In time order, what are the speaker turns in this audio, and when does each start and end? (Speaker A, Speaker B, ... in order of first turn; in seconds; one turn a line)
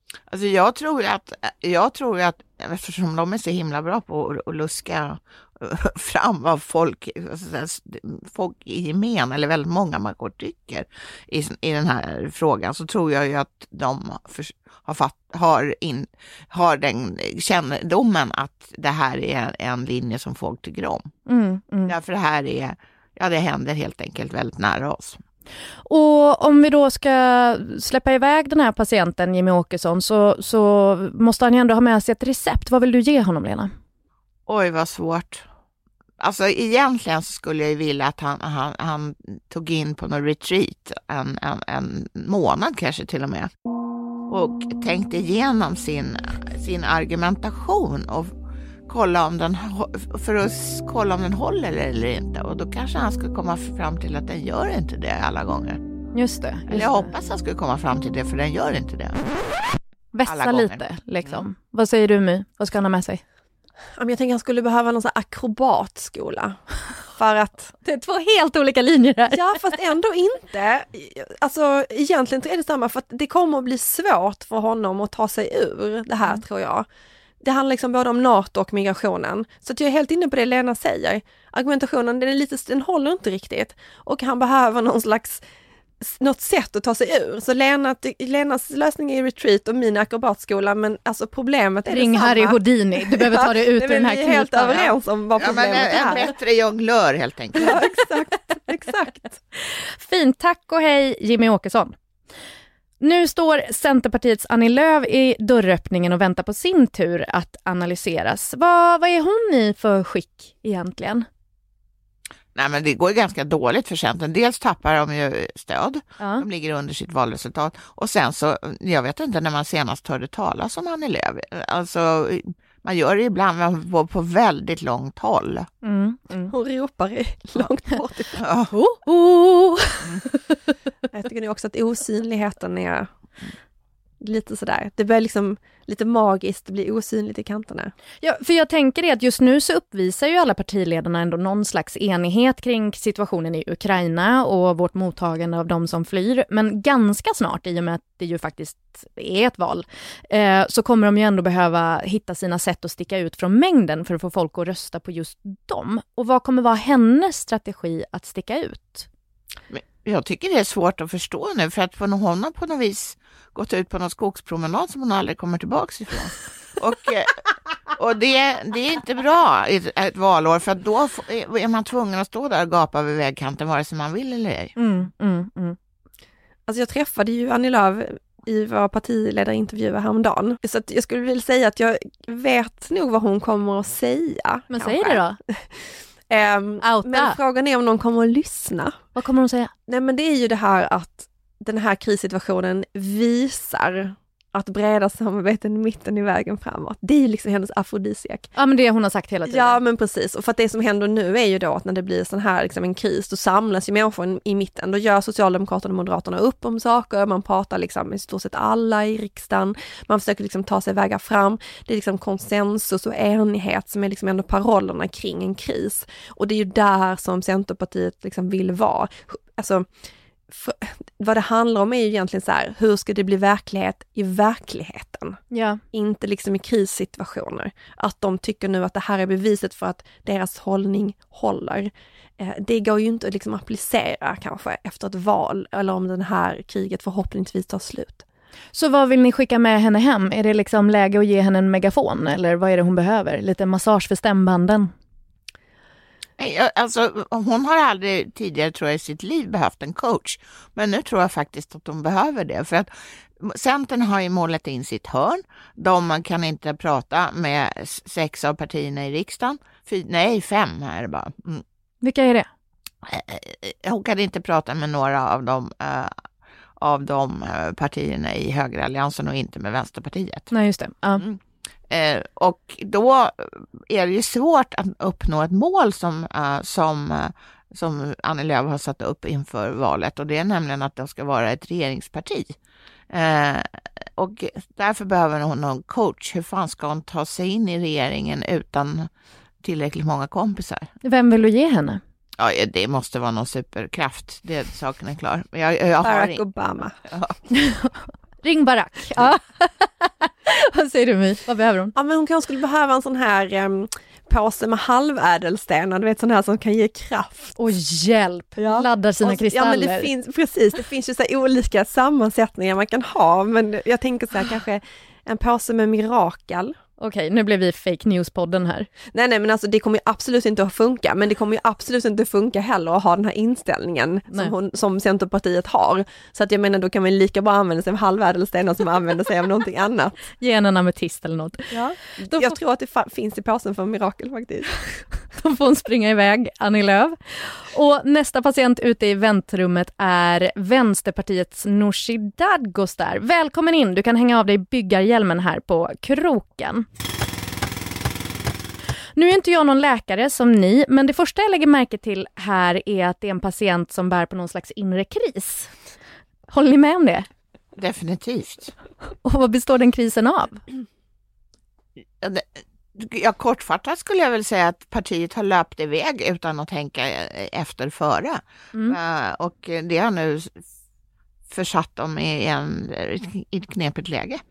Speaker A: 0.3-21.1
Speaker B: 21.3-21.9
Speaker A: 21.9-25.2
Speaker B: 25.9-33.7
Speaker A: 34.5-35.4
Speaker A: 36.2-43.5
Speaker A: 44.3-48.3
Speaker A: 48.9-55.8
Speaker B: 56.1-57.1
Speaker A: 56.7-59.3
Speaker B: 60.1-63.2
Speaker A: 60.2-61.4
Speaker C: 64.0-66.6
Speaker C: 67.2-67.7
Speaker B: 67.8-69.6
Speaker C: 69.3-76.8
Speaker C: 77.4-85.4
Speaker C: 86.0-96.3
Speaker B: 91.9-94.9
Speaker A: 95.4-97.8
Speaker C: 97.6-99.4
Speaker B: 99.7-102.0
Speaker B: 103.0-111.2
Speaker A: 112.5-125.7
Speaker B: 116.2-116.4
Speaker B: 125.8-126.5
Speaker C: 126.5-128.4
Speaker A: 128.4-128.7
Speaker B: 128.7-130.4
Speaker C: 131.1-133.1
Speaker C: 134.2-137.9
Speaker B: 138.2-159.1
Speaker A: 159.7-167.4
Speaker A: 167.9-174.7
Speaker B: 174.8-175.8
Speaker C: 176.7-185.8
Speaker B: 184.7-185.4
Speaker C: 186.3-188.9
Speaker B: 186.8-187.4
Speaker B: 189.2-189.7
Speaker C: 189.9-198.5
Speaker B: 198.6-199.8
Speaker C: 199.5-219.8
Speaker C: 220.5-225.4
Speaker B: 225.5-225.8
Speaker C: 225.9-238.2
Speaker B: 238.7-244.9
Speaker A: 246.4-261.6
Speaker B: 262.0-262.5
Speaker A: 263.0-266.2
Speaker A: 266.8-270.5
Speaker B: 270.5-271.2
Speaker A: 271.2-282.6
Speaker A: 283.1-289.1
Speaker A: 289.6-290.9
Speaker B: 291.0-292.0
Speaker A: 292.4-296.4
Speaker C: 296.0-296.9
Speaker A: 297.1-297.4
Speaker B: 297.5-301.9
Speaker C: 301.9-307.6
Speaker B: 307.6-310.1
Speaker C: 308.6-316.7
Speaker B: 317.0-318.9
Speaker C: 319.1-330.2
Speaker B: 330.4-332.6
Speaker C: 331.7-334.8
Speaker B: 335.3-346.9
Speaker B: 349.1-355.7
Speaker B: 356.5-357.3
Speaker A: 357.8-358.7
Speaker B: 359.2-360.6
Speaker A: 362.2-370.6
Speaker A: 371.5-374.4